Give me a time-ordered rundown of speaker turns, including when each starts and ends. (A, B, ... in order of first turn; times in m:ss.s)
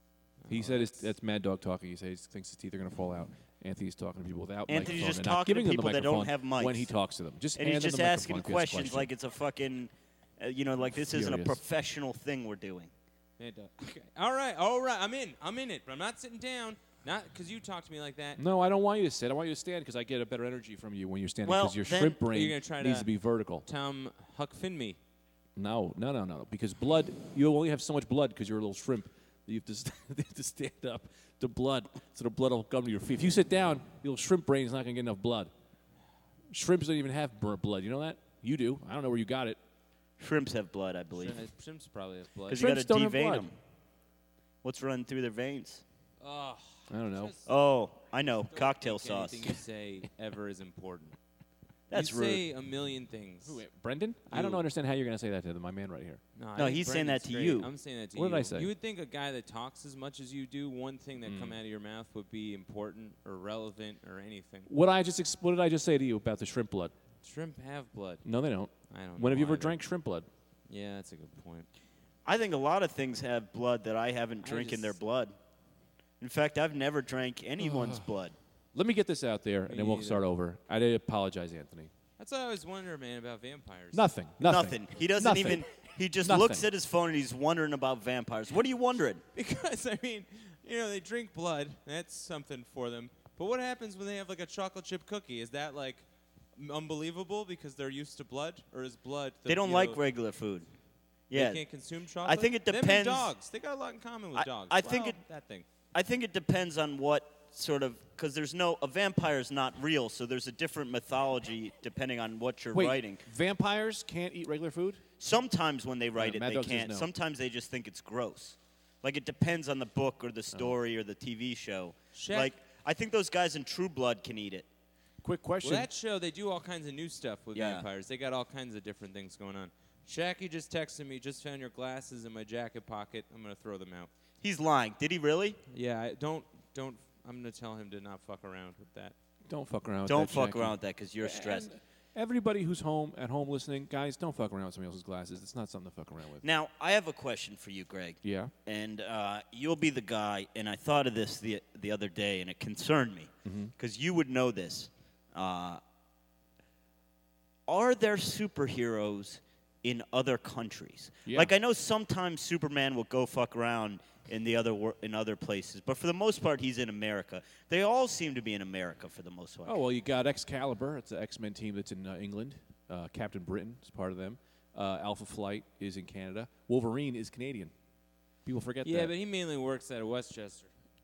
0:00.4-0:01.1 A
0:00.5-0:09.1 B
0:04.7-0:06.9 C
0:07.6-0:12.9 C
0:10.9-0:11.6 B
0:13.4-0:18.4 A
0:18.4-0:23.6 B
0:21.4-0:22.2 C
0:22.3-0:23.1 A
0:23.6-0:25.0 A
0:25.6-0:35.5 B
0:36.5-0:39.6 B
0:40.2-0:41.4 C
0:41.2-0:42.6 A
0:42.5-0:43.6 C
0:42.5-0:43.5 B
0:44.6-0:45.8 C
0:46.2-0:47.5 A
0:46.9-0:47.3 B
0:47.5-0:49.4 C
0:48.5-0:51.2 A
0:51.9-0:52.3 C
0:51.9-0:53.6 A
0:52.0-0:52.4 B
0:53.5-0:56.2 B
0:54.3-0:54.7 A
0:56.4-1:04.7 A
0:56.6-0:57.7 C
0:58.2-0:58.7 B
1:01.2-1:01.6 B
1:04.7-1:06.9 B
1:07.2-1:08.2 A
1:08.2-1:10.3 B
1:08.9-1:09.8 A
1:10.7-1:11.7 A
1:12.2-1:15.4 C
1:14.4-1:15.0 A
1:16.2-1:18.3 C
1:17.6-1:18.0 B
1:18.7-1:21.9 B
1:19.7-1:20.2 A
1:22.2-1:24.1 A
1:23.9-1:25.6 B
1:24.4-1:29.2 C
1:26.2-1:26.6 B
1:29.4-1:36.0 A
1:36.6-1:40.0 A
1:39.5-1:40.7 C
1:41.3-1:41.6 C
1:41.3-1:45.6 A
1:42.2-1:43.3 C
1:44.4-1:45.2 C
1:45.9-1:53.2 C
1:52.7-1:55.0 B
1:55.2-2:04.7 C
1:56.2-1:57.1 B
2:02.1-2:02.5 A
2:05.2-2:05.9 B
2:05.6-2:14.1 A
2:07.5-2:07.9 C
2:14.4-2:15.6 C
2:15.7-2:19.1 A
2:19.5-2:26.4 B
2:20.1-2:21.7 C
2:26.4-2:35.8 C
2:28.2-2:28.5 B
2:33.4-2:33.7 B
2:37.7-2:49.8 C
2:41.2-2:41.5 B
2:49.7-2:57.7 B
2:58.5-2:59.1 B
2:58.8-3:00.7 A